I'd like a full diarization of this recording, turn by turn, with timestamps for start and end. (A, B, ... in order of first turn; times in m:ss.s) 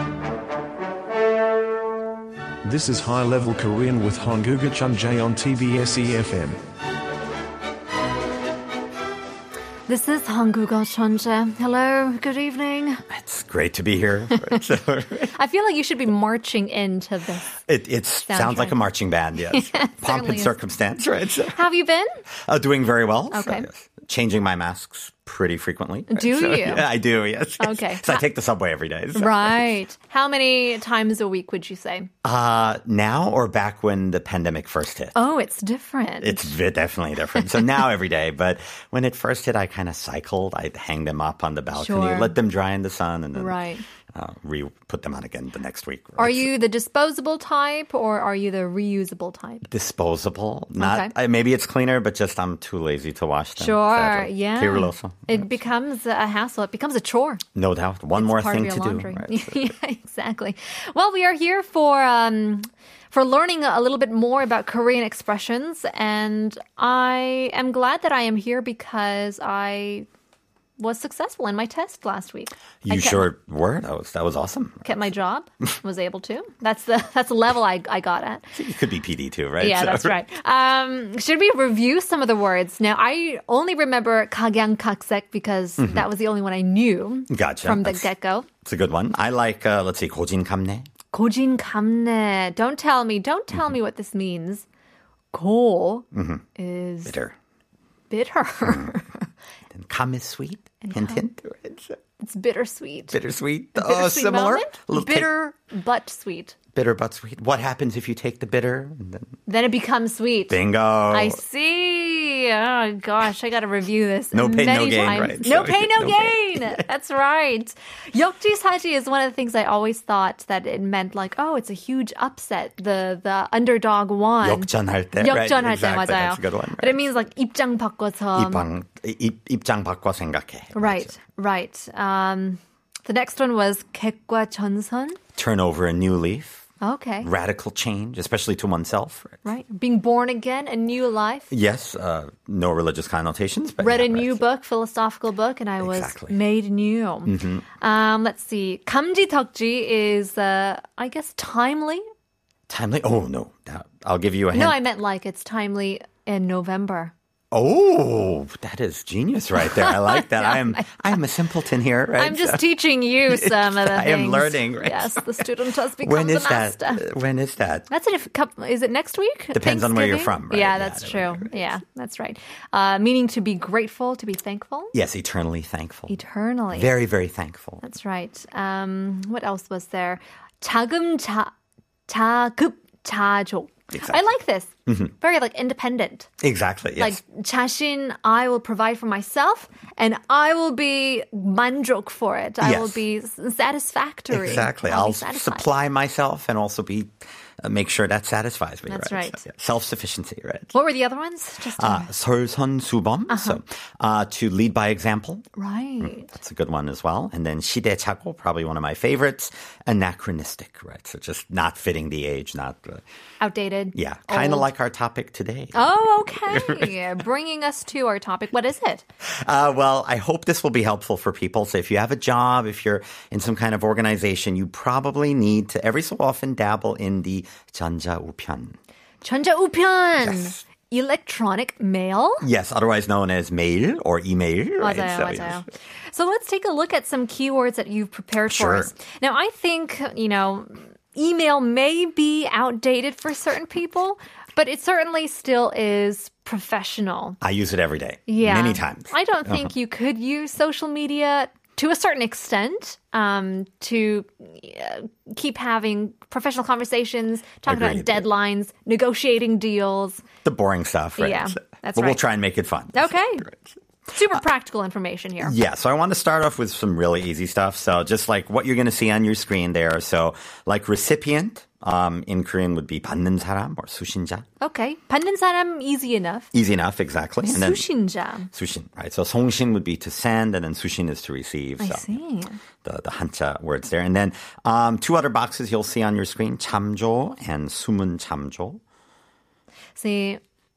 0:02.6-0:06.6 A
0:09.9-0:13.0 B
0:13.1-0:15.3 C
0:15.3-0:17.6 B
0:17.6-0:21.6 C
0:18.3-0:18.8 B
0:19.4-0:20.5 B
0:21.5-0:22.1 B
0:22.4-0:29.6 C
0:23.3-0:23.7 B
0:26.1-0:26.9 B
0:27.6-0:28.2 B
0:29.1-0:32.1 B
0:32.2-0:35.2 C
0:35.1-0:36.5 B
0:36.2-0:43.6 C
0:41.7-0:42.4 B
0:43.4-0:43.8 B
0:44.1-0:46.5 C
0:46.2-0:49.6 B
0:49.6-0:55.4 C
0:50.8-0:51.1 B
0:53.6-0:57.4 B
0:57.5-0:59.7 C
0:58.1-1:10.1 B
1:10.8-1:13.2 B
1:12.8-1:14.9 C
1:14.8-1:18.5 B
1:18.5-1:20.1 C
1:19.6-1:28.5 B
1:25.8-1:26.1 C
1:27.3-1:28.1 C
1:28.6-1:30.9 C
1:31.1-1:34.6 B
1:35.3-1:37.2 B
1:36.1-1:36.4 C
1:37.0-1:37.3 C
1:38.1-1:39.0 B
1:38.6-1:38.9 C
1:39.7-1:42.0 C
1:40.8-1:41.2 B
1:42.2-1:43.2 B
1:43.1-1:45.3 C
1:43.7-1:46.6 B
1:46.7-1:49.4 C
1:49.5-2:08.7 B
1:50.5-1:51.4 C
1:54.3-1:56.8 C
2:04.4-2:07.0 C
2:08.3-2:11.1 C
2:10.7-2:15.2 B
2:15.3-2:16.6 C
2:16.8-2:17.3 B
2:17.2-2:19.4 C
2:19.4-2:21.5 B
2:21.5-2:24.4 C
2:23.8-2:32.0 B
2:25.8-2:26.4 C
2:27.2-2:27.6 C
2:32.7-2:34.8 C
2:34.5-2:37.1 B
2:37.5-2:42.6 C
2:39.6-2:40.9 B
2:42.2-2:47.0 B
2:43.3-2:45.4 C
2:46.0-2:47.9 C
2:47.9-2:54.9 B
2:49.5-2:51.6 C
2:54.9-2:56.1 C
2:56.1-2:56.9 B
2:56.7-2:57.8 C
2:57.8-3:01.5 B
3:02.1-3:06.3 B
3:03.9-3:04.2 C
3:06.4-3:07.2 C
3:07.0-3:15.7 B
3:12.6-3:13.0 C
3:14.3-3:20.7 C
3:18.9-3:19.4 B
3:20.7-3:22.1 B
3:21.8-3:25.4 C
3:23.3-3:23.6 B
3:25.6-3:26.3 B
3:26.0-3:33.0 C
3:33.4-3:34.7 B
3:33.9-3:36.9 C
3:35.7-3:39.0 B
3:39.2-3:48.8 C
3:49.2-3:52.4 B
3:50.2-3:50.6 C
3:52.4-3:55.6 C
3:54.8-4:07.4 B
3:58.5-3:58.9 C
4:07.4-4:09.7 C
4:08.3-4:20.2 B
4:17.6-4:18.3 C
4:20.4-4:23.8 C
4:21.2-4:22.2 B
4:22.9-4:23.5 B
4:24.1-4:25.5 B
4:25.4-4:34.4 C
4:34.6-4:36.5 B
4:36.5-4:37.8 C
4:37.4-4:38.5 B
4:38.5-4:42.2 C
4:41.8-4:42.6 B
4:42.8-4:48.8 C
4:50.0-4:50.4 B